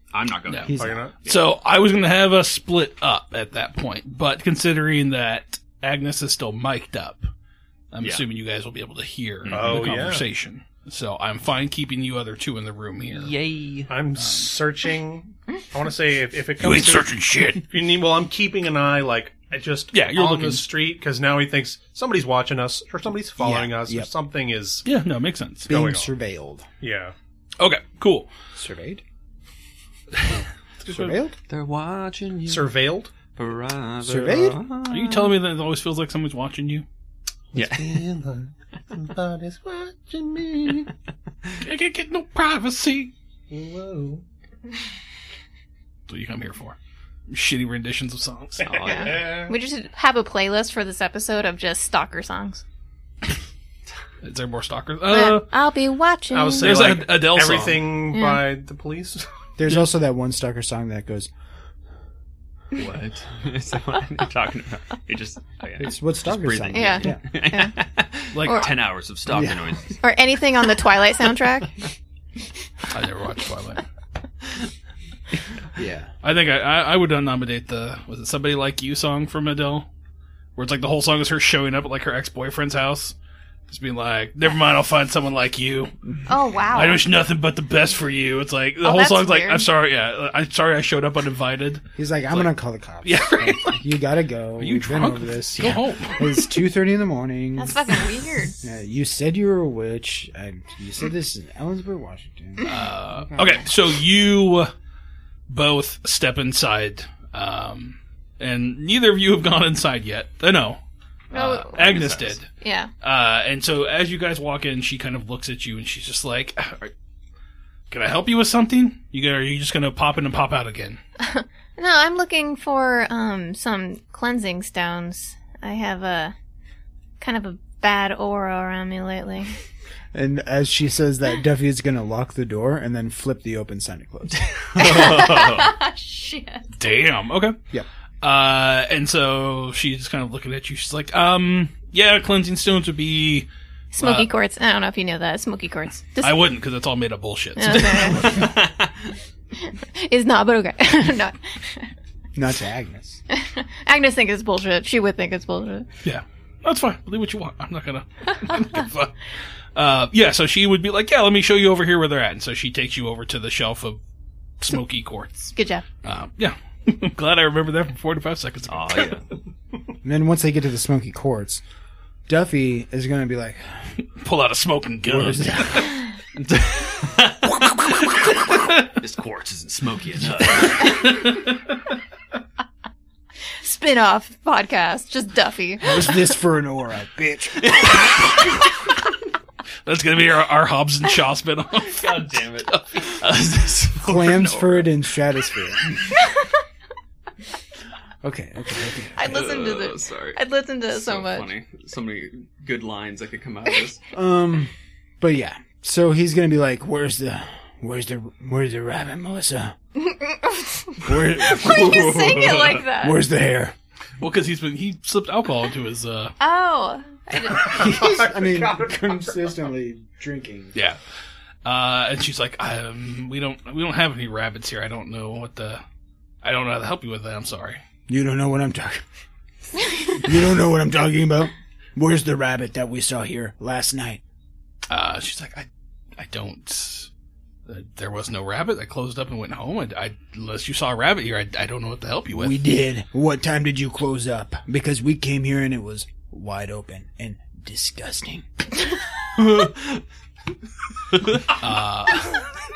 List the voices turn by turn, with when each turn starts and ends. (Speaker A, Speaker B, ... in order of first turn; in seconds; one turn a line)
Speaker A: 0.1-1.4
Speaker B: 0.5-7.3
Speaker C: 0.7-1.1
Speaker D: 0.8-1.2
Speaker B: 7.9-13.3
Speaker A: 9.4-9.9
Speaker D: 9.5-10.2
Speaker A: 13.1-13.9
Speaker D: 13.9-17.1
Speaker B: 14.2-14.5
Speaker B: 16.6-17.6
Speaker D: 17.6-24.9
Speaker B: 19.9-20.6
Speaker C: 23.4-24.1
Speaker B: 24.9-25.7
Speaker D: 25.7-26.1
Speaker C: 25.7-26.7
Speaker D: 26.8-27.1
Speaker B: 27.6-28.3
Speaker C: 28.6-29.0
Speaker B: 30.1-30.4
Speaker C: 30.9-31.4
Speaker D: 30.9-31.1
Speaker A: 31.5-32.8
Speaker D: 32.5-33.1
Speaker A: 33.3-35.4
Speaker C: 34.0-34.6
Speaker B: 34.9-36.9
Speaker A: 37.5-38.0
Speaker D: 37.5-40.9
Speaker B: 41.6-43.1
Speaker D: 43.5-44.2
Speaker B: 46.1-46.8
Speaker B: 47.3-48.8
Speaker D: 48.6-49.5
Speaker A: 48.6-49.3
Speaker E: 48.8-52.6
Speaker B: 54.2-55.5
Speaker E: 55.1-56.9
Speaker D: 56.3-59.2
Speaker B: 56.6-58.0
Speaker E: 58.1-58.4
Speaker C: 59.6-61.3
Speaker A: 62.7-70.0
Speaker C: 65.8-67.2
Speaker E: 66.7-67.8
Speaker B: 68.3-68.8
Speaker E: 68.4-68.7
Speaker C: 69.3-69.8
Speaker E: 70.0-71.8
Speaker B: 72.9-73.8
Speaker C: 75.8-76.1
Speaker B: 76.2-79.9
Speaker B: 80.6-83.1
Speaker B: 83.7-85.9
Speaker E: 86.3-87.0
Speaker B: 86.7-92.5
Speaker E: 88.8-89.7
Speaker C: 92.0-97.9
Speaker B: 93.0-93.9
Speaker B: 94.6-96.5
Speaker E: 97.6-98.6
Speaker C: 98.6-102.8
Speaker B: 102.6-104.7
Speaker B: 105.5-110.8
Speaker E: 111.3-112.0
Speaker B: 111.3-112.5
Speaker A: 111.7-112.4
Speaker E: 112.6-112.9
Speaker B: 113.0-116.9
Speaker B: 117.9-121.0
Speaker E: 121.2-126.3
Speaker E: 127.2-129.5
Speaker C: 130.1-135.1
Speaker A: 134.6-135.7
Speaker E: 134.8-136.7
Speaker B: 136.8-137.6
Speaker B: 138.2-144.3
Speaker E: 143.9-146.4
Speaker B: 146.2-148.5
Speaker E: 147.6-148.3
Speaker A: 147.9-149.1
Speaker E: 149.6-151.9
Speaker C: 152.3-153.2
Speaker E: 153.3-155.9
Speaker B: 156.0-164.0
Speaker B: 164.6-169.2
Speaker E: 165.6-165.8
Speaker A: 168.7-169.2
Speaker C: 170.0-171.6
Speaker C: 172.3-173.9
Speaker B: 174.0-175.9
Speaker C: 175.1-175.9
Speaker A: 176.4-181.1
Speaker B: 180.7-181.6
Speaker E: 183.6-186.2
Speaker C: 185.8-187.8
Speaker A: 187.6-188.4
Speaker B: 189.8-193.5
Speaker A: 191.8-194.9
Speaker C: 194.0-195.9
Speaker E: 196.2-196.6
Speaker C: 198.2-199.2
Speaker E: 199.1-201.5
Speaker A: 199.2-204.0
Speaker C: 204.1-209.8
Speaker E: 210.1-213.2
Speaker C: 211.1-212.3
Speaker A: 211.3-212.8
Speaker C: 212.9-213.8
Speaker B: 214.2-216.3
Speaker E: 216.4-217.8
Speaker C: 217.6-220.8
Speaker D: 217.7-219.5
Speaker B: 220.7-221.0
Speaker B: 221.6-225.8
Speaker B: 226.4-227.8
Speaker C: 228.1-229.0
Speaker C: 230.2-234.2
Speaker B: 234.9-237.1
Speaker B: 237.7-242.6
Speaker C: 242.3-248.5
Speaker A: 249.4-250.0
Speaker B: 251.6-252.4